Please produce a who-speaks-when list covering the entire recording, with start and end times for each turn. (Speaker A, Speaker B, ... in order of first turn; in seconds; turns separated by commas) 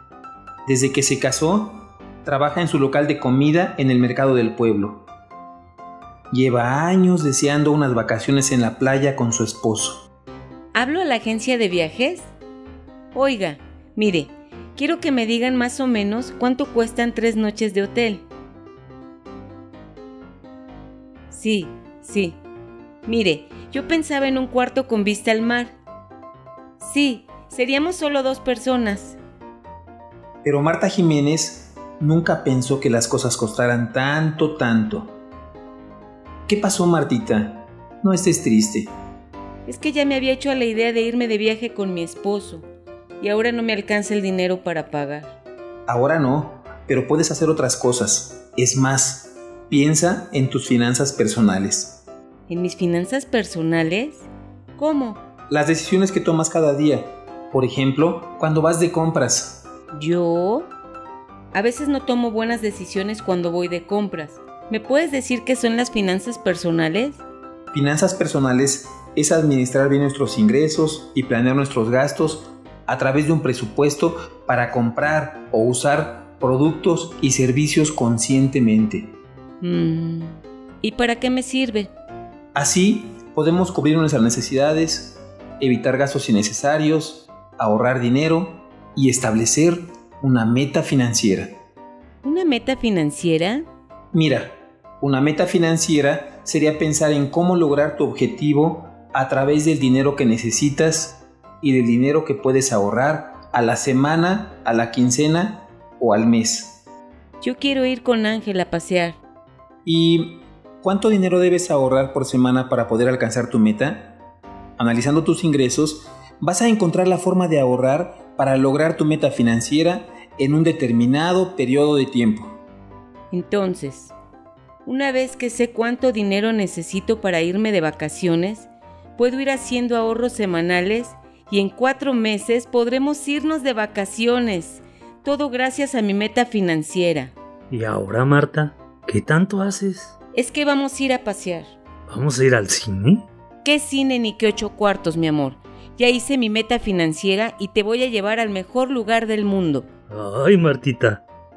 Speaker A: 0.7-5.0, Speaker A: 6.3-10.0, Speaker B: 10.7-12.3, Speaker B: 13.1-18.2, Speaker B: 21.3-22.4, Speaker B: 23.0-25.8, Speaker B: 26.8-29.2, Speaker A: 30.4-35.1, Speaker A: 36.5-38.9, Speaker B: 39.6-42.7, Speaker B: 43.2-45.4, Speaker A: 45.9-52.0, Speaker B: 52.5-55.2, Speaker A: 55.5-59.6, Speaker B: 59.9-60.7, Speaker B: 61.5-67.2, Speaker A: 67.7-79.1, Speaker B: 79.6-81.9, Speaker A: 82.5-91.5, Speaker B: 92.2-93.7, Speaker A: 94.1-106.8, Speaker B: 107.4-109.2, Speaker A: 109.8-114.1, Speaker A: 114.8-122.5, Speaker B: 123.3-124.1, Speaker B: 124.8-137.3, Speaker C: 137.7-140.1, Speaker B: 140.3-141.7, Speaker C: 142.1-143.2, Speaker B: 143.6-149.9, Speaker C: 150.1-151.2